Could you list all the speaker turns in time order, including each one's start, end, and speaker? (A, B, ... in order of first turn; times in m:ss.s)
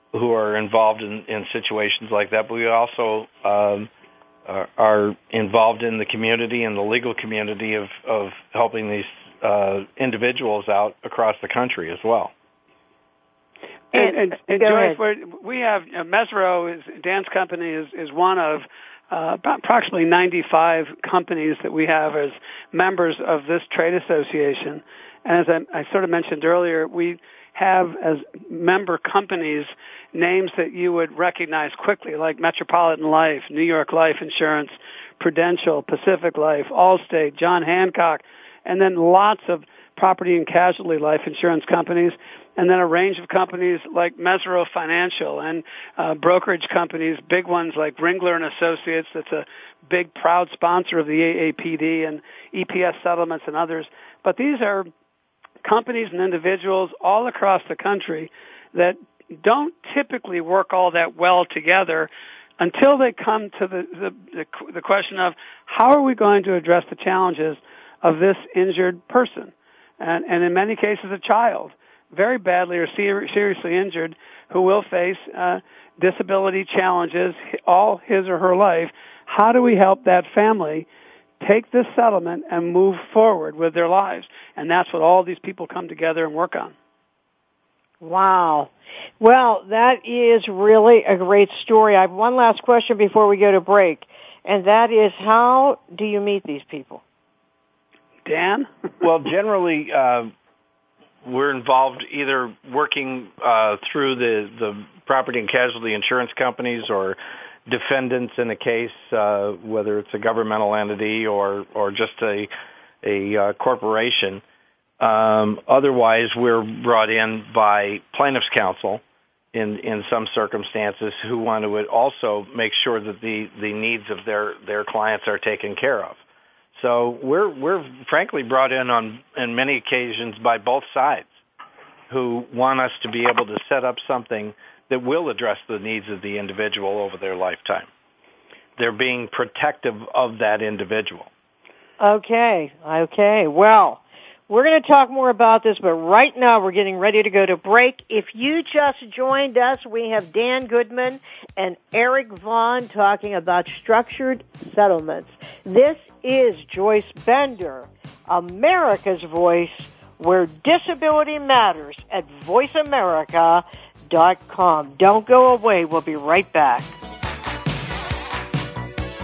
0:00.1-0:03.9 A
0:04.5-0:12.3 A
0:13.9-0:54.9 B
0:13.9-0:15.0 C
0:55.6-1:20.9 B
1:21.4-1:26.7 B
1:28.0-1:37.0 C
1:38.2-1:38.7 B
1:39.0-1:40.3 A
1:41.2-1:54.4 A
1:55.0-1:59.0 A
1:59.5-2:06.2 A
2:06.8-2:11.3 A
2:12.1-2:17.9 A
2:18.8-2:21.3 A
2:22.0-2:47.0 C